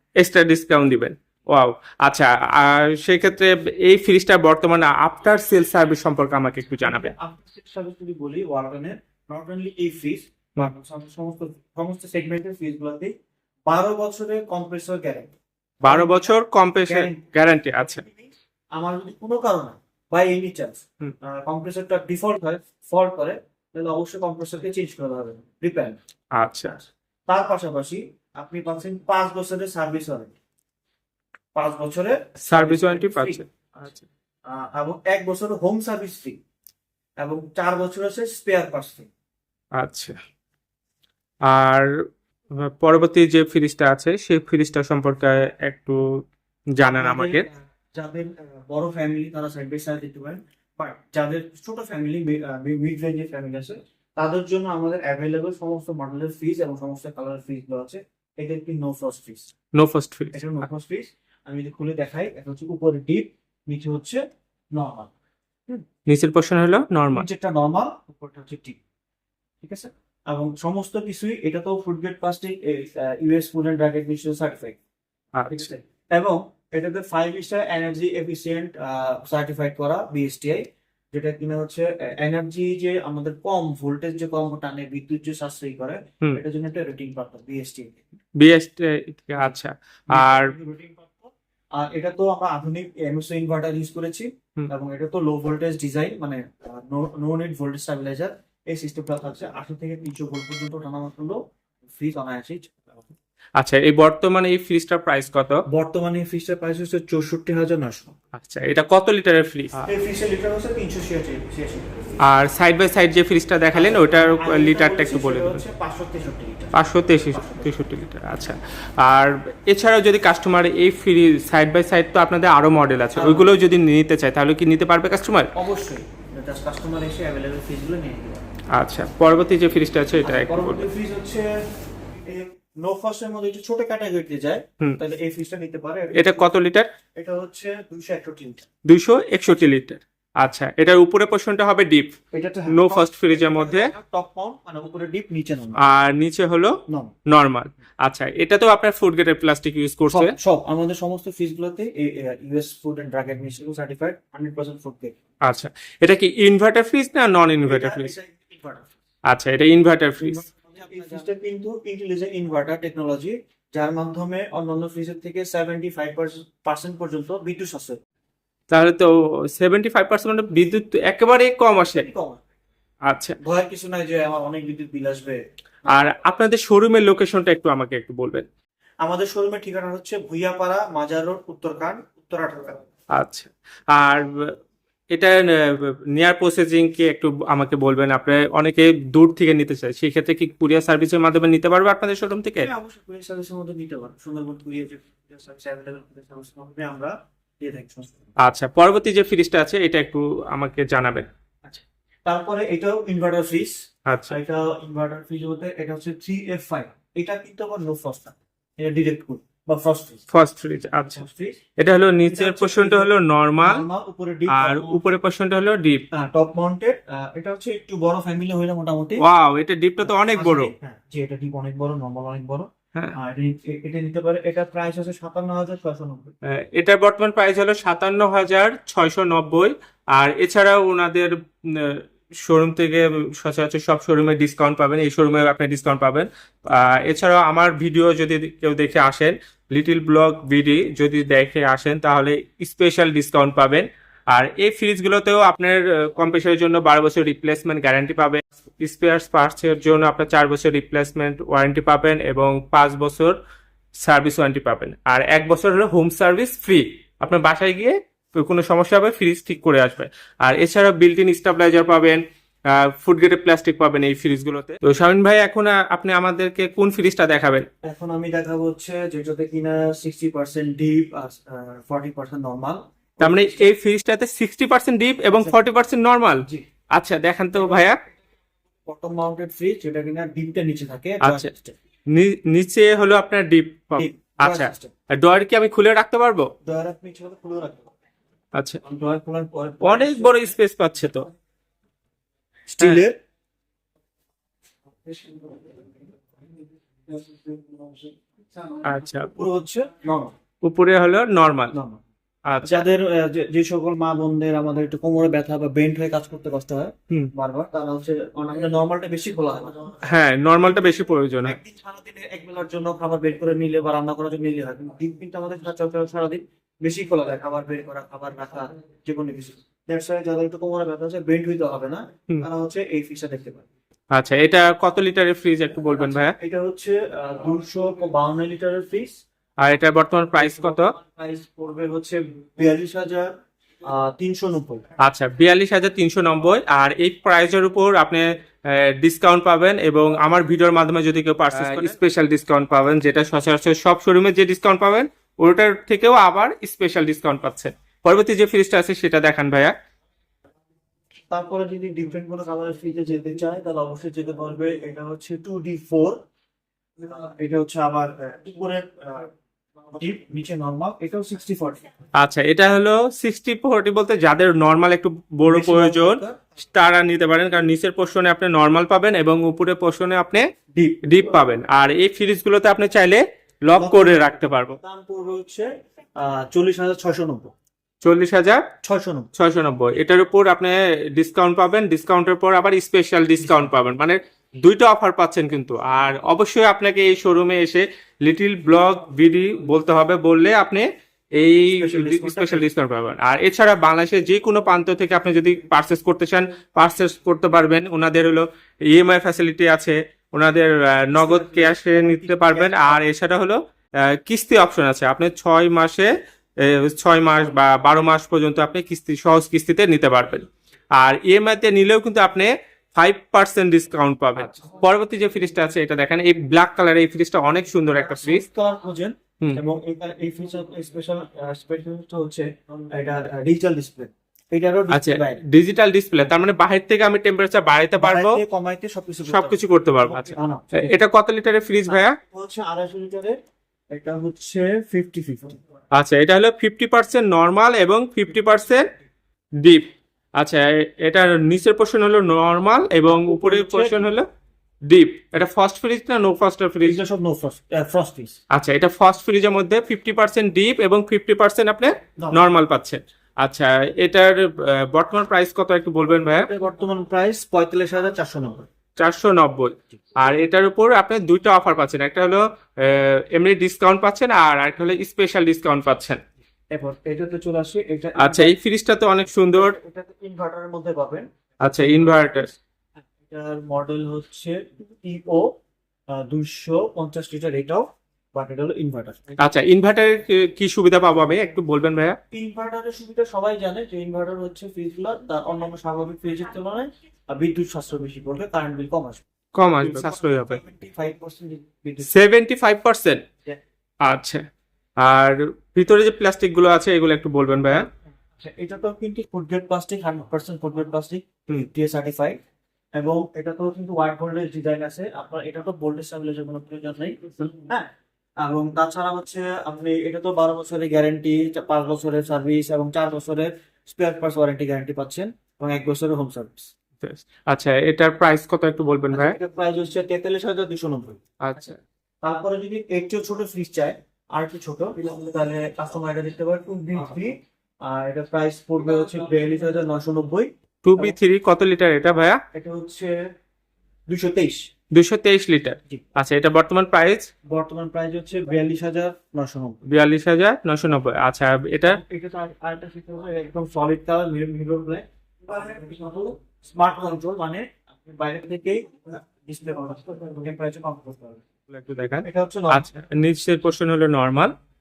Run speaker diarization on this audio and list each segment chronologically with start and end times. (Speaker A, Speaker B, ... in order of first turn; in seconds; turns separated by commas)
Speaker A: 0.2-7.1, Speaker B: 6.8-13.1, Speaker B: 13.7-15.3, Speaker A: 15.8-18.0, Speaker B: 15.8-26.0, Speaker A: 26.3-26.7, Speaker B: 26.6-30.3, Speaker B: 31.5-36.4, Speaker A: 32.4-33.5, Speaker B: 37.2-39.1, Speaker A: 39.8-40.2, Speaker A: 41.5-46.2, Speaker A: 46.8-47.4, Speaker B: 46.9-59.5, Speaker A: 59.7-60.6, Speaker B: 60.3-64.2, Speaker B: 64.7-65.1, Speaker A: 66.1-67.2, Speaker B: 67.1-68.8, Speaker B: 69.6-74.8, Speaker A: 75.3-75.7, Speaker B: 75.5-88.0, Speaker A: 88.4-90.5, Speaker B: 90.1-103.0, Speaker A: 103.6-105.6, Speaker B: 105.7-108.1, Speaker A: 108.3-109.9, Speaker B: 109.8-112.2, Speaker A: 112.2-115.6, Speaker B: 113.7-117.9, Speaker A: 116.7-125.5, Speaker B: 123.1-123.5, Speaker B: 125.5-128.4, Speaker A: 128.7-130.8, Speaker B: 130.2-136.5, Speaker A: 136.1-136.9, Speaker B: 137.1-138.7, Speaker A: 138.8-142.1, Speaker B: 142.3-145.9, Speaker A: 142.7-143.9, Speaker A: 145.8-150.3, Speaker B: 146.9-147.1, Speaker B: 150.1-155.2, Speaker A: 155.4-158.1, Speaker B: 157.6-158.9, Speaker A: 159.3-160.4, Speaker B: 160.2-168.0, Speaker A: 168.7-172.1, Speaker B: 171.9-172.4, Speaker A: 173.1-173.4, Speaker B: 173.4-175.4, Speaker A: 175.9-178.4, Speaker B: 179.0-182.8, Speaker A: 183.1-184.6, Speaker A: 185.1-192.7, Speaker B: 192.6-198.3, Speaker A: 198.4-201.3, Speaker B: 201.7-210.2, Speaker A: 204.1-204.3, Speaker A: 210.3-211.2, Speaker B: 211.2-211.6, Speaker A: 211.8-213.8, Speaker B: 212.2-215.0, Speaker A: 214.5-216.1, Speaker B: 216.1-219.2, Speaker A: 219.2-220.7, Speaker B: 220.0-226.3, Speaker A: 226.4-253.4, Speaker A: 253.9-267.6, Speaker B: 267.8-273.7, Speaker A: 273.2-278.0, Speaker B: 277.6-277.9, Speaker B: 278.9-281.8, Speaker A: 281.2-281.5, Speaker A: 282.1-286.5, Speaker B: 284.0-284.9, Speaker B: 286.6-287.9, Speaker A: 288.5-288.8, Speaker B: 288.8-290.5, Speaker A: 289.8-291.3, Speaker B: 292.7-293.2, Speaker B: 295.1-296.0, Speaker B: 297.1-300.4, Speaker A: 298.8-299.3, Speaker A: 300.6-301.8, Speaker B: 301.7-302.0, Speaker A: 302.5-302.8, Speaker B: 302.6-310.0, Speaker A: 310.0-311.6, Speaker B: 311.4-323.7, Speaker A: 324.1-326.3, Speaker B: 325.9-329.2, Speaker A: 329.6-330.9, Speaker B: 330.4-334.9, Speaker A: 335.0-349.7, Speaker B: 341.5-342.0, Speaker B: 351.3-356.2, Speaker B: 357.0-359.3, Speaker B: 359.9-361.9, Speaker A: 362.2-370.4, Speaker B: 365.4-366.4, Speaker B: 370.7-371.5, Speaker A: 371.0-374.8, Speaker B: 373.7-377.5, Speaker A: 378.0-378.6, Speaker B: 378.8-379.3, Speaker A: 379.3-390.9, Speaker A: 391.4-418.4, Speaker B: 391.7-392.7, Speaker B: 401.1-403.1, Speaker B: 417.9-425.4, Speaker A: 424.9-428.4, Speaker B: 428.0-430.9, Speaker A: 429.3-432.2, Speaker B: 431.9-433.4, Speaker B: 433.9-435.6, Speaker A: 435.9-438.9, Speaker A: 439.6-444.3, Speaker B: 443.1-444.2, Speaker A: 444.9-447.0, Speaker B: 446.8-448.4, Speaker A: 448.5-456.5, Speaker B: 452.2-452.4, Speaker B: 456.3-458.7, Speaker A: 459.0-466.2, Speaker B: 466.7-468.5, Speaker A: 468.2-469.7, Speaker B: 469.5-471.3, Speaker A: 471.6-472.5, Speaker B: 471.8-472.5, Speaker B: 473.2-475.5, Speaker B: 476.1-479.4, Speaker A: 479.4-482.2, Speaker B: 482.3-489.2, Speaker A: 489.5-490.6, Speaker B: 489.8-492.1, Speaker A: 492.1-493.2, Speaker A: 494.0-494.4, Speaker A: 495.0-497.9, Speaker B: 498.4-502.4, Speaker B: 502.9-516.7, Speaker A: 517.0-519.4, Speaker B: 519.1-521.2, Speaker A: 521.4-521.8, Speaker B: 522.2-531.1, Speaker A: 530.8-532.4, Speaker B: 532.5-533.3, Speaker B: 534.1-534.7, Speaker A: 534.9-537.3, Speaker B: 537.4-539.8, Speaker A: 539.9-542.0, Speaker B: 541.9-551.4, Speaker A: 551.7-554.5, Speaker B: 552.2-552.9